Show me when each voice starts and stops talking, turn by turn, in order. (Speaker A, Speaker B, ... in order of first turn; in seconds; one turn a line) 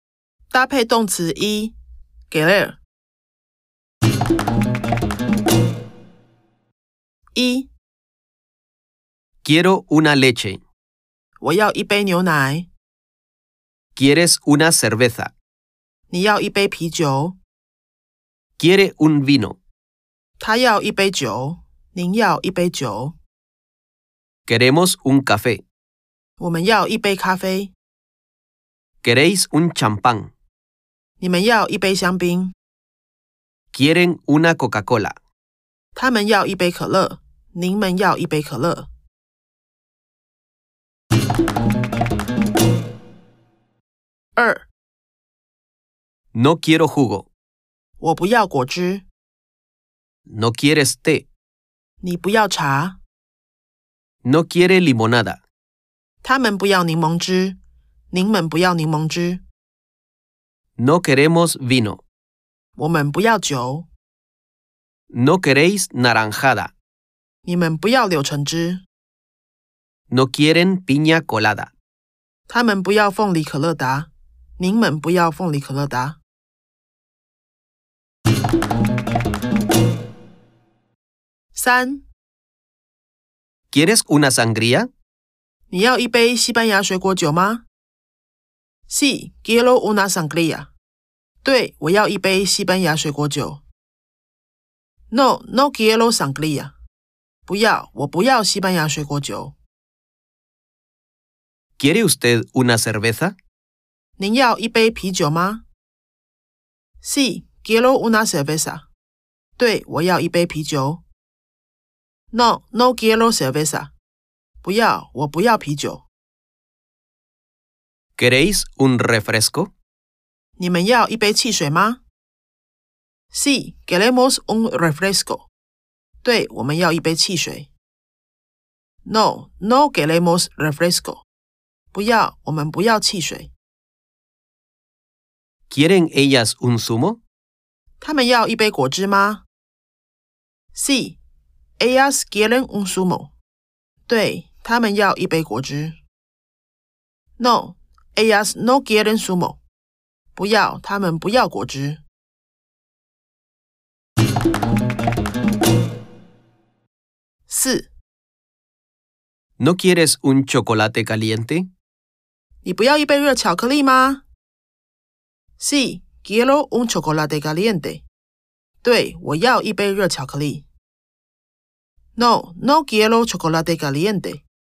Speaker A: 0.5-1.7
Speaker A: 2.3-2.8
Speaker A: 7.3-7.7
Speaker B: 9.4-10.6
Speaker A: 11.4-12.7
Speaker B: 13.9-15.3
Speaker A: 16.1-17.4
Speaker B: 18.6-19.6
Speaker A: 20.4-23.1
Speaker B: 24.5-25.6
Speaker A: 26.4-27.7
Speaker B: 29.0-30.3
Speaker A: 31.2-32.5
Speaker B: 33.7-35.1
Speaker A: 35.9-38.9
Speaker A: 44.4-44.6
Speaker B: 46.3-47.3
Speaker A: 48.0-49.0
Speaker B: 50.3-51.2
Speaker A: 52.0-53.0
Speaker B: 54.2-55.4
Speaker A: 56.2-57.6
Speaker A: 58.1-59.4
Speaker B: 60.8-62.0
Speaker A: 62.8-63.9
Speaker B: 65.1-66.7
Speaker A: 67.4-68.8
Speaker B: 70.1-71.7
Speaker A: 72.5-76.2
Speaker A: 81.5-82.0
Speaker B: 83.7-84.9
Speaker A: 85.7-87.6
Speaker A: 88.9-90.7
Speaker A: 91.4-93.6
Speaker A: 95.1-96.7
Speaker A: 97.5-99.5
Speaker B: 101.8-103.3
Speaker A: 104.2-105.6
Speaker A: 107.0-108.9
Speaker A: 109.6-111.0
Speaker A: 112.3-113.9
Speaker A: 114.6-116.0
Speaker B: 118.2-119.7
Speaker A: 120.6-122.0
Speaker A: 123.3-125.5
Speaker A: 126.2-127.7
Speaker A: 129.0-131.2
Speaker A: 131.9-133.5
Speaker B: 135.7-137.2
Speaker A: 138.0-139.4
Speaker A: 140.7-141.2
Speaker A: 141.8-143.3
Speaker A: 144.1-145.9
Speaker A: 147.4-149.6
Speaker A: 150.3-152.0
Speaker A: 157.5-157.9
Speaker B: 159.6-161.7
Speaker A: 162.6-164.2
Speaker A: 165.6-168.0
Speaker A: 168.8-170.6
Speaker A: 172.1-174.4